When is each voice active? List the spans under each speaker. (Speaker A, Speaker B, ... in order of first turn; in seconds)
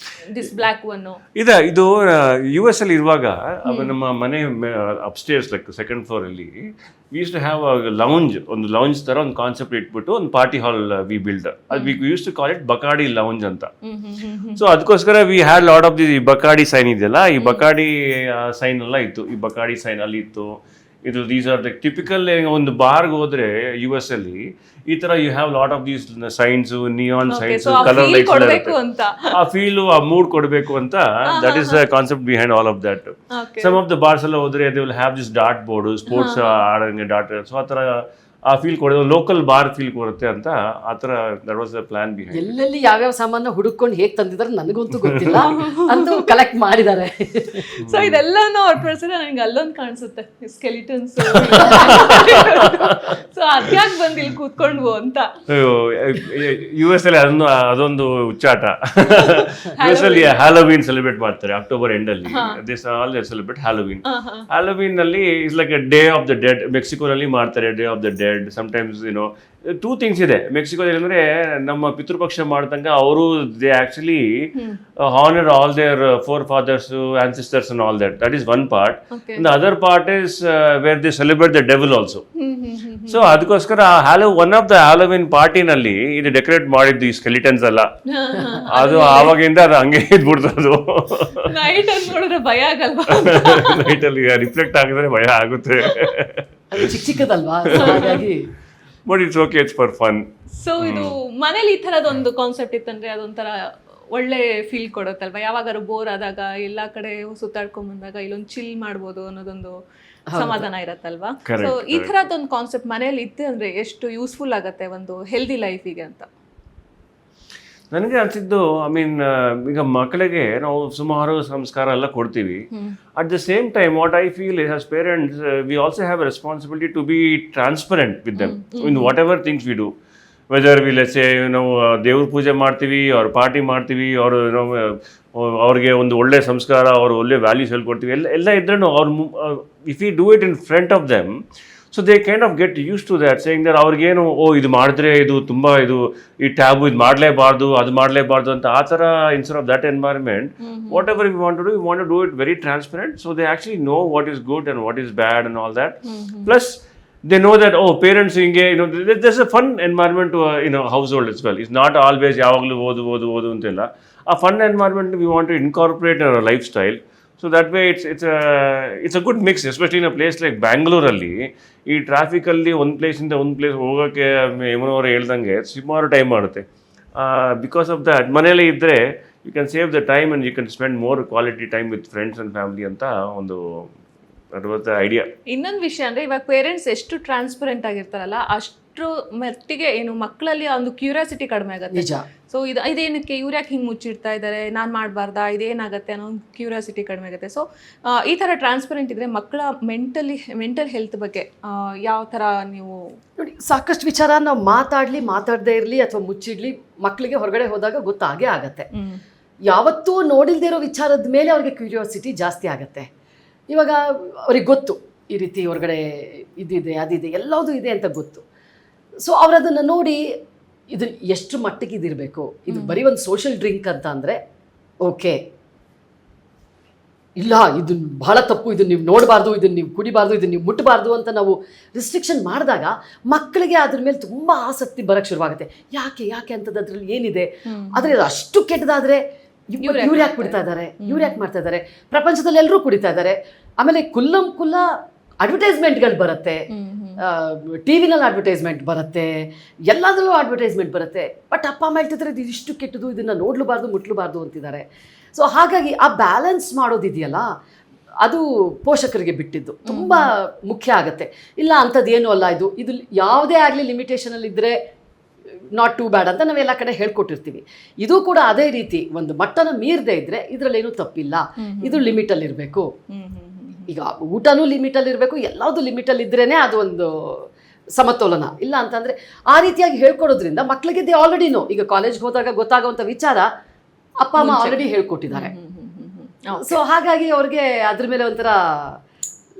Speaker A: 0.2-1.2, 3.6-3.9, 11.7-12.0, 13.8-14.6, 17.4-17.6, 27.3-29.3, 31.3-31.8, 33.3-33.8, 36.1-36.6, 45.3-46.2, 47.8-55.3, 59.2-60.4, 62.3-62.6, 64.0-64.5, 79.1-79.5, 82.4-83.4, 88.1-89.3, 91.5-93.9, 97.7-98.2, 100.6-109.8, 110.3-116.3, 128.3-129.1, 150.6-151.0, 156.0-156.5, 185.5-203.2, 208.9-209.2, 222.7-223.0, 237.7-238.1, 239.8-241.4, 246.7-247.2, 259.9-260.3, 271.6-272.1, 273.1-273.9, 284.4-286.8
Speaker B: 1.4-13.7, 14.6-28.8, 29.3-42.5, 45.0-45.4, 47.8-48.2, 51.4-53.0, 55.5-82.2, 83.1-87.9, 88.7-91.8, 93.2-97.1, 97.8-98.2, 99.0-100.3, 100.8-101.2, 111.4-112.1, 117.9-122.7, 123.2-129.9, 130.5-141.3, 141.9-176.6, 177.2-183.9, 184.5-185.3
Speaker C: 42.3-47.6, 96.7-98.4, 110.3-110.7, 191.9-192.2, 203.4-208.9, 209.7-213.1, 213.7-218.4, 219.2-220.2, 220.9-224.4, 225.0-225.4, 227.4-239.2, 239.7-244.9, 245.4-246.6, 247.2-249.3, 249.9-254.8, 255.3-257.4, 258.2-264.8, 265.8-272.9, 273.9-283.5, 284.2-285.5, 286.6-289.0